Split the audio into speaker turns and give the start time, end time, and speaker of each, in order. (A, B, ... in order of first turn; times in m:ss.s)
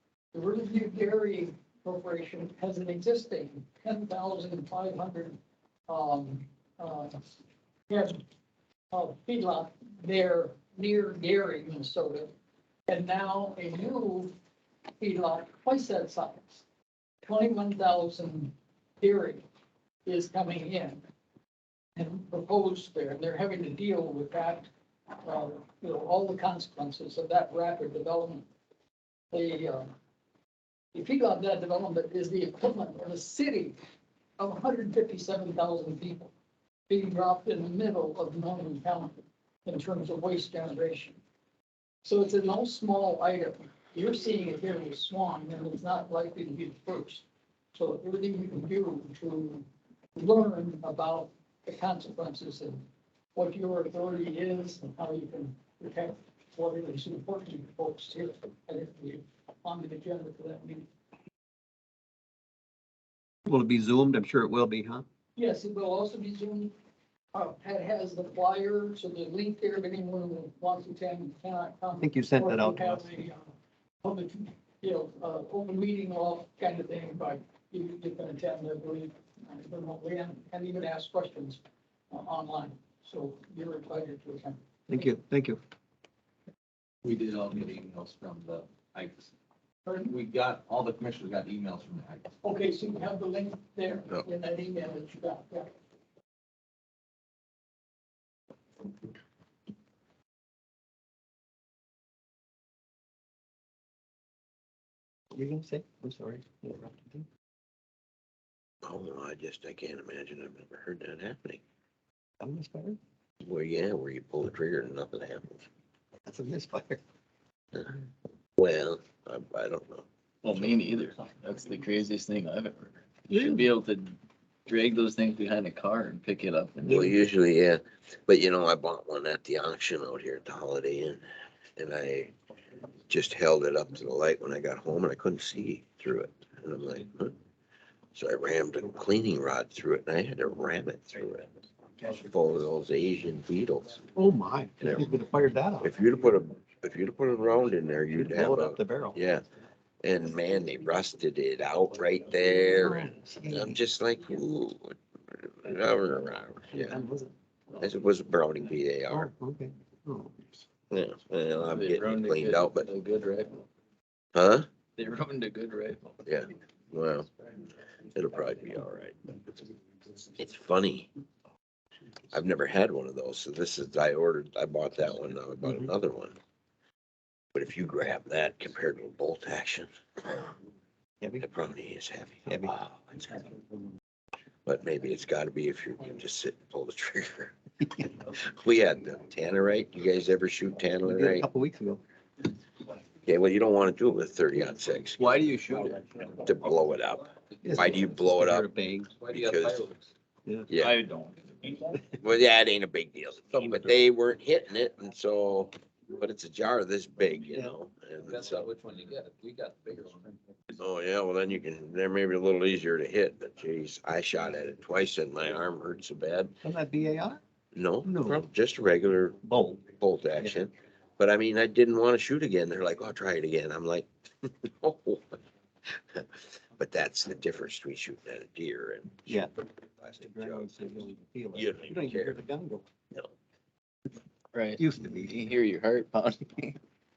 0:00.3-0:07.2 A
0:07.9-0:08.2 A
0:08.9-0:12.3 A
0:12.9-0:14.3 A
0:15.0-0:16.6 A
0:17.2-0:19.4 A
0:20.0-0:21.0 A
0:22.0-0:24.7 A
0:25.2-0:28.5 A
0:29.3-0:29.9 A
0:30.9-0:33.8 A
0:34.4-0:36.3 A
0:36.9-0:41.2 A
0:42.0-0:52.8 A
0:53.3-1:00.9 A
1:03.4-1:05.0 B
1:05.4-1:06.7 A
1:07.3-1:13.5 A
1:12.0-1:13.1 B
1:14.0-1:25.1 A
1:24.9-1:25.6 B
1:27.0-1:29.3 C
1:29.8-1:30.1 A
1:30.0-1:32.3 C
1:32.4-1:35.7 A
1:45.3-1:47.2 B
1:48.8-1:51.6 D
1:52.4-1:53.0 B
1:53.4-1:55.6 D
1:56.3-1:57.0 B
1:58.6-2:00.0 D
2:00.4-2:04.1 E
2:03.3-2:03.7 B
2:04.7-2:07.1 E
2:06.8-2:11.2 D
2:11.8-2:12.3 D
2:13.1-2:17.3 D
2:18.1-2:24.0 D
2:24.1-2:25.9 B
2:25.8-2:29.4 D
2:28.1-2:29.2 B
2:30.0-2:37.0 D
2:32.8-2:33.8 B
2:36.7-2:37.3 B
2:37.8-2:39.3 D
2:39.1-2:40.5 B
2:40.9-2:42.9 D
2:41.7-2:43.6 E
2:44.3-2:44.7 D
2:45.0-2:46.2 E
2:46.2-2:47.3 D
2:48.1-2:49.4 D
2:50.2-2:51.1 D
2:52.3-2:56.4 D
2:57.5-3:00.5 D
3:01.2-3:01.4 B
3:01.4-3:03.5 D
3:02.4-3:02.7 B
3:04.6-3:11.5 D
3:11.0-3:12.0 B
3:13.2-3:15.4 D
3:15.1-3:16.5 C
3:16.4-3:18.7 D
3:17.6-3:19.1 B
3:19.2-3:20.1 C
3:19.3-3:19.8 D
3:20.7-3:21.0 D
3:20.8-3:21.9 C
3:22.2-3:28.7 D
3:28.2-3:30.3 C
3:30.8-3:36.5 D
3:36.6-3:37.4 B
3:37.7-3:39.4 D
3:38.0-3:38.5 B
3:39.4-3:40.6 B
3:39.9-3:49.5 D
3:49.3-3:49.5 B
3:50.0-3:50.7 D
3:50.2-3:52.8 B
3:51.5-3:52.4 D
3:54.5-3:56.8 E
3:54.8-3:55.4 B